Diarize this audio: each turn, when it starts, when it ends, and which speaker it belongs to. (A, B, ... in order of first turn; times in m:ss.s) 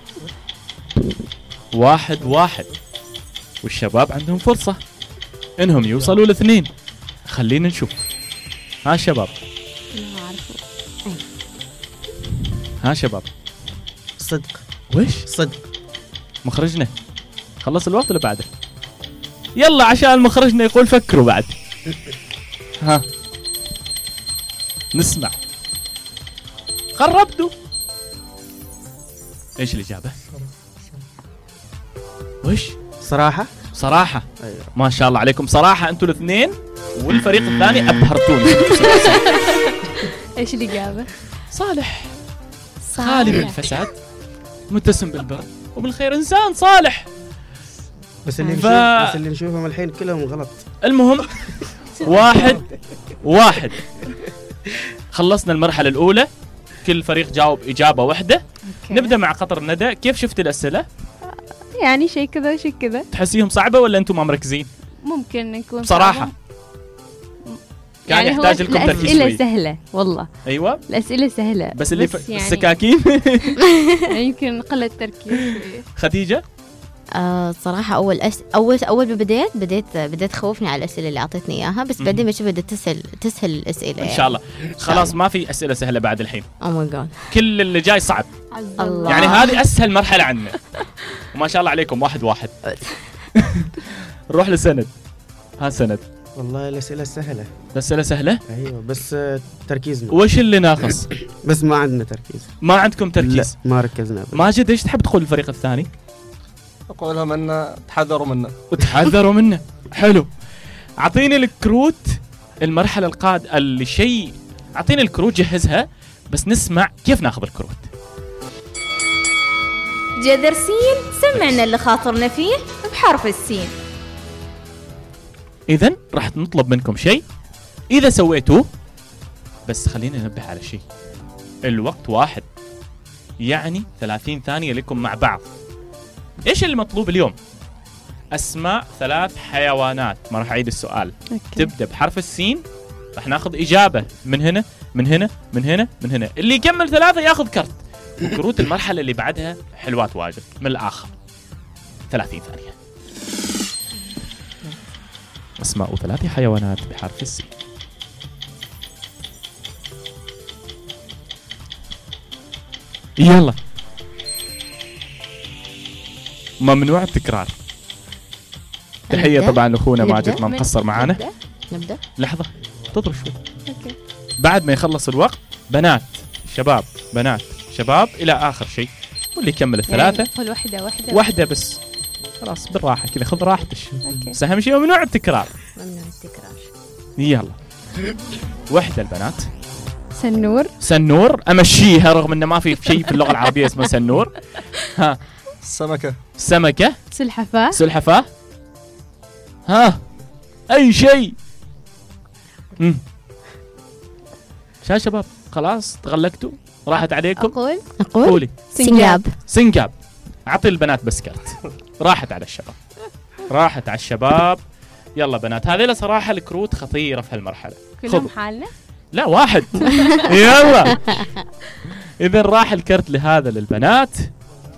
0:01.7-0:02.7 A
0:03.6-0:04.8 A
0:05.6-0:06.7 A
0:07.3-0:08.1 A
0:08.8-0:09.4 A
0:09.9-0:10.6 B
0:12.8-0:13.3 A
0:14.2-0:14.6 C
0:14.9-0:15.3 A
0:15.3-0:15.6 C
0:16.4-0:16.9 A
0:17.6-0:18.5 A
0:19.6-0:21.6 A
0:24.9-0:25.4 A
0:27.0-0:27.5 A
0:29.6-0:30.2 A
0:32.4-0:32.8 A
0:33.0-0:33.5 C
0:33.7-0:39.4 A
0:34.4-0:34.7 C
0:40.4-0:41.1 B
0:41.5-0:42.1 A
0:42.9-0:43.6 B
0:43.0-0:44.0 A
0:44.7-0:47.1 A
0:48.2-0:50.6 C
0:48.4-0:49.2 A
0:50.8-0:52.7 A
0:53.2-0:53.8 A
0:55.1-0:56.3 A
0:56.8-1:00.9 A
0:58.7-0:59.2 B
1:01.7-1:03.1 B
1:03.1-1:04.7 A
1:05.0-1:06.3 B
1:05.8-1:06.3 A
1:07.5-1:10.3 B
1:08.1-1:09.4 A
1:08.7-1:09.2 D
1:10.5-1:10.8 A
1:10.8-1:12.7 B
1:11.8-1:13.6 A
1:14.1-1:15.8 B
1:16.0-1:16.4 A
1:17.2-1:25.2 D
1:22.0-1:22.3 A
1:24.0-1:26.5 A
1:26.6-1:27.2 D
1:27.3-1:28.3 A
1:28.5-1:29.4 B
1:28.8-1:29.6 D
1:29.1-1:30.6 A
1:31.3-1:32.6 A
1:32.7-1:33.0 D
1:33.4-1:34.9 A
1:35.6-1:36.0 A
1:36.4-1:37.5 C
1:37.8-1:38.4 A
1:38.5-1:40.2 C
1:40.1-1:41.1 A
1:41.1-1:42.5 C
1:42.6-1:43.6 A
1:43.2-1:44.5 C
1:44.3-1:45.9 A
1:46.9-1:48.6 E
1:48.7-1:50.3 A
1:51.0-1:57.9 A
2:00.2-2:03.7 F
2:01.3-2:01.6 A
2:05.7-2:07.2 A
2:07.9-2:08.7 A
2:09.7-2:10.8 A
2:11.7-2:12.5 A
2:13.4-2:15.5 A
2:16.4-2:17.4 A
2:18.3-2:22.6 A
2:21.3-2:21.6 B
2:23.2-2:31.1 A
2:32.1-2:32.8 A
2:35.6-2:37.5 A
2:43.2-2:43.6 A
2:46.6-2:47.5 A
2:49.1-2:51.2 A
2:49.1-2:50.4 D
2:50.4-2:51.3 B
2:51.7-2:52.0 D
2:52.2-2:53.4 A
2:53.7-2:54.0 B
2:54.4-3:00.3 A
2:59.9-3:01.3 B
3:01.1-3:01.8 A
3:02.4-3:05.5 A
3:04.0-3:04.4 B
3:05.8-3:06.7 D
3:07.2-3:07.6 A
3:08.7-3:09.5 A
3:10.1-3:10.7 B
3:10.8-3:15.2 A
3:15.6-3:16.2 E
3:16.4-3:17.0 A
3:17.1-3:17.8 B
3:17.7-3:18.3 A
3:19.7-3:20.0 A
3:20.7-3:21.4 A
3:24.8-3:27.6 A
3:27.4-3:27.9 B
3:28.0-3:29.4 D
3:28.2-3:28.7 A
3:28.7-3:29.2 B
3:29.4-3:29.9 A
3:30.5-3:32.8 A
3:33.5-3:34.6 A
3:35.2-3:38.3 A
3:38.0-3:38.7 B
3:39.1-3:41.3 A
3:42.2-3:44.3 A